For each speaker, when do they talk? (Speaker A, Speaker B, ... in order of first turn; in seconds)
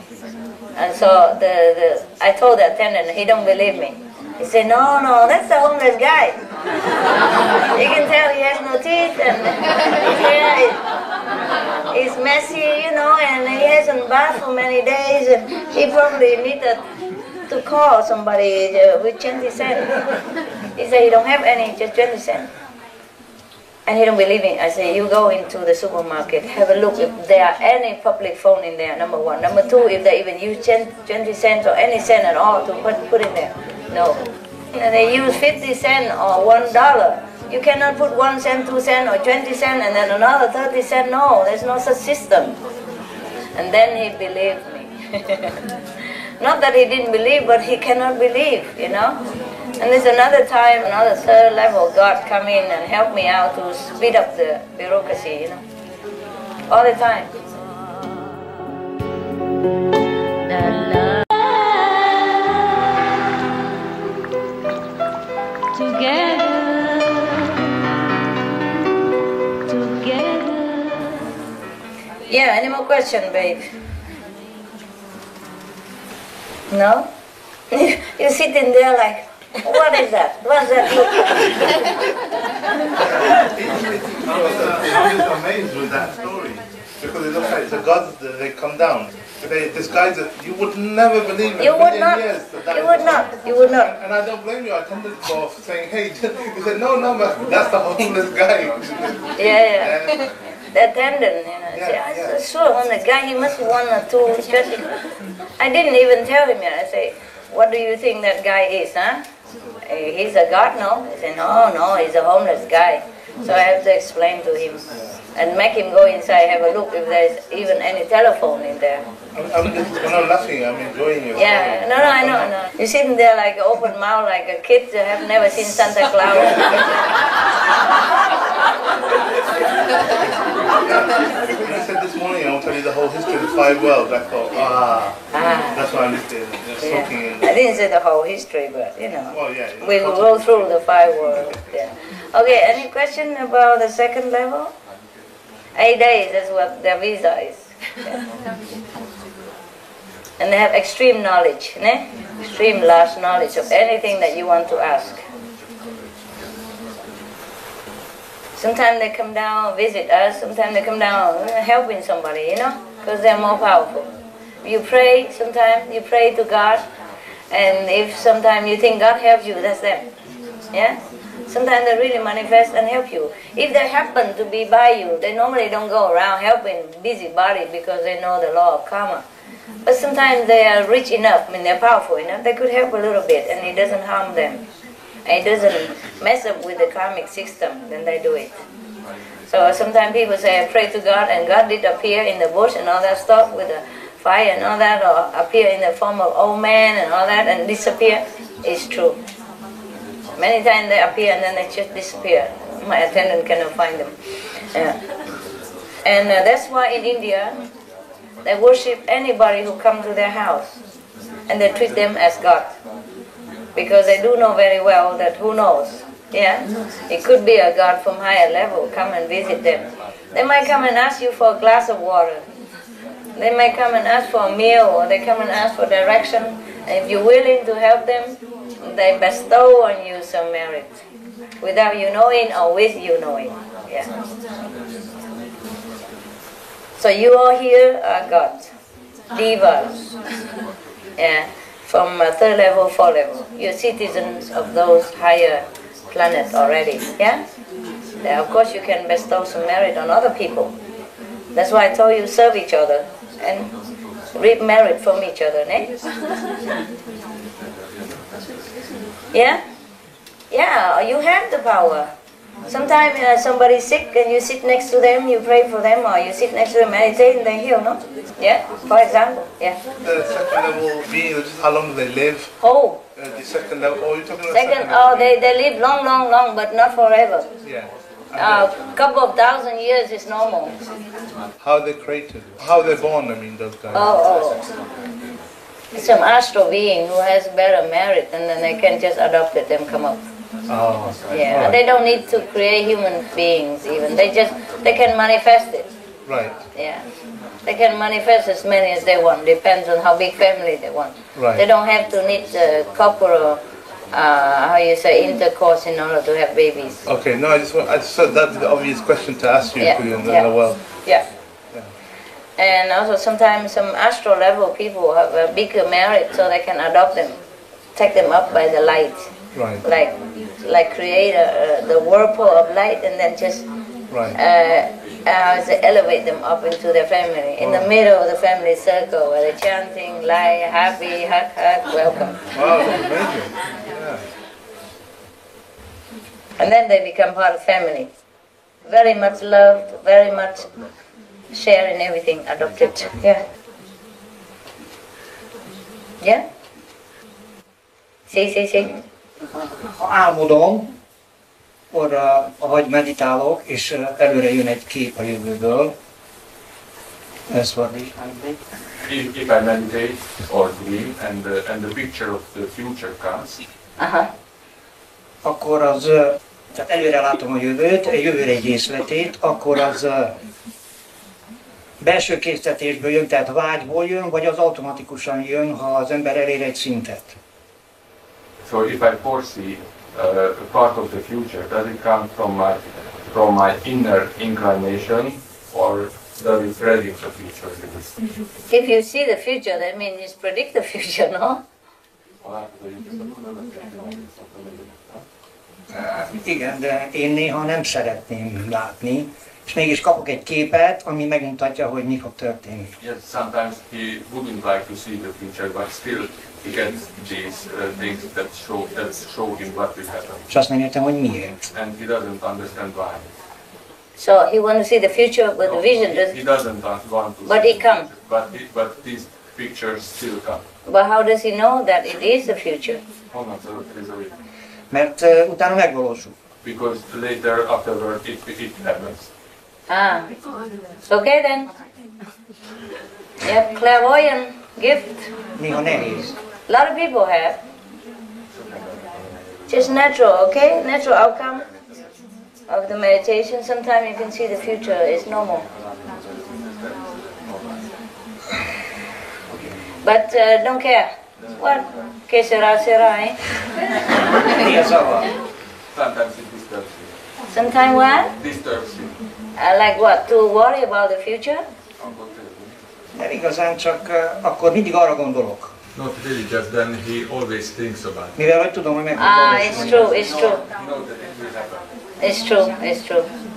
Speaker A: 0.8-6.4, 7.7-10.8, 11.9-16.8, 17.5-19.9, 20.8-22.5, 23.9-34.2, 34.7-42.6, 43.6-45.5, 46.4-49.2, 49.8-55.6, 56.7-57.3, 60.5-62.3, 65.7-67.5, 69.7-71.3, 72.3-73.6, 76.7-77.1, 77.7-81.5, 91.6-94.0, 99.4-100.0, 100.7-104.9, 105.6-109.2, 109.9-114.8, 115.4-119.0, 121.4-126.7, 135.3-135.8, 136.8-144.7, 145.8-148.2, 150.4-155.2, 158.6-164.1, 164.6-166.8, 167.5-170.1, 170.7-171.0, 171.5-179.2, 179.8-184.6, 185.3-188.5, 189.5-199.2, 200.4-204.1, 206.1-207.6, 208.4-210.8, 211.5-212.7, 213.8-222.4, 223.4-231.0, 231.6-234.1, 237.0-238.7, 239.3-240.0, 241.2-247.4, 248.2-250.7, 251.6-253.7, 254.3-255.9, 259.3-259.6, 260.5-262.1, 262.7-269.8, 272.6-273.0, 274.5-277.5, 278.4-280.7, 283.9-284.6, 285.9-290.2, 291.3-295.9, 296.8-297.0, 297.7-303.6, 304.1-307.0, 309.8-310.5, 312.6-317.4, 318.0-319.2, 319.8-320.1, 320.6-323.6, 324.3-332.4, 336.6-338.1, 338.9-340.7, 341.5-343.4, 348.3-349.0, 364.0-364.3, 388.7-391.6, 414.2-416.4, 417.5-418.1, 420.9-423.0, 429.9-430.3, 431.1-431.7, 433.4-435.3, 436.7-437.6, 439.7-441.6, 442.7-445.6, 450.0-453.4, 457.5-458.3, 459.6-461.6, 469.2-470.6, 472.2-473.3
Speaker B: 83.3-93.2, 94.0-100.2, 101.7-102.3, 119.3-122.5, 126.3-126.8, 130.9-135.2, 135.7-137.7, 139.3-140.6, 270.0-272.5, 273.1-275.6, 277.6-278.7, 281.6-284.1, 290.7-291.8, 296.3-296.5, 301.4-301.6, 307.1-310.8, 319.5-319.8, 327.6-327.9, 332.5-334.2
Speaker C: 350.0-350.9, 351.9-355.9, 357.5-358.6, 365.4-370.4, 372.0-377.4, 395.9-402.9, 410.5-411.6, 424.9-426.3, 435.6-436.3, 454.5-455.3, 463.2-465.7, 468.4-470.1
Speaker D: 359.0-363.6, 378.6-388.1, 392.4-395.2, 403.0-410.5, 411.7-413.3, 415.6-420.6, 423.3-424.3, 426.6-429.3, 455.9-457.1, 458.4-459.1, 462.0-462.7, 465.9-468.4, 469.7-471.9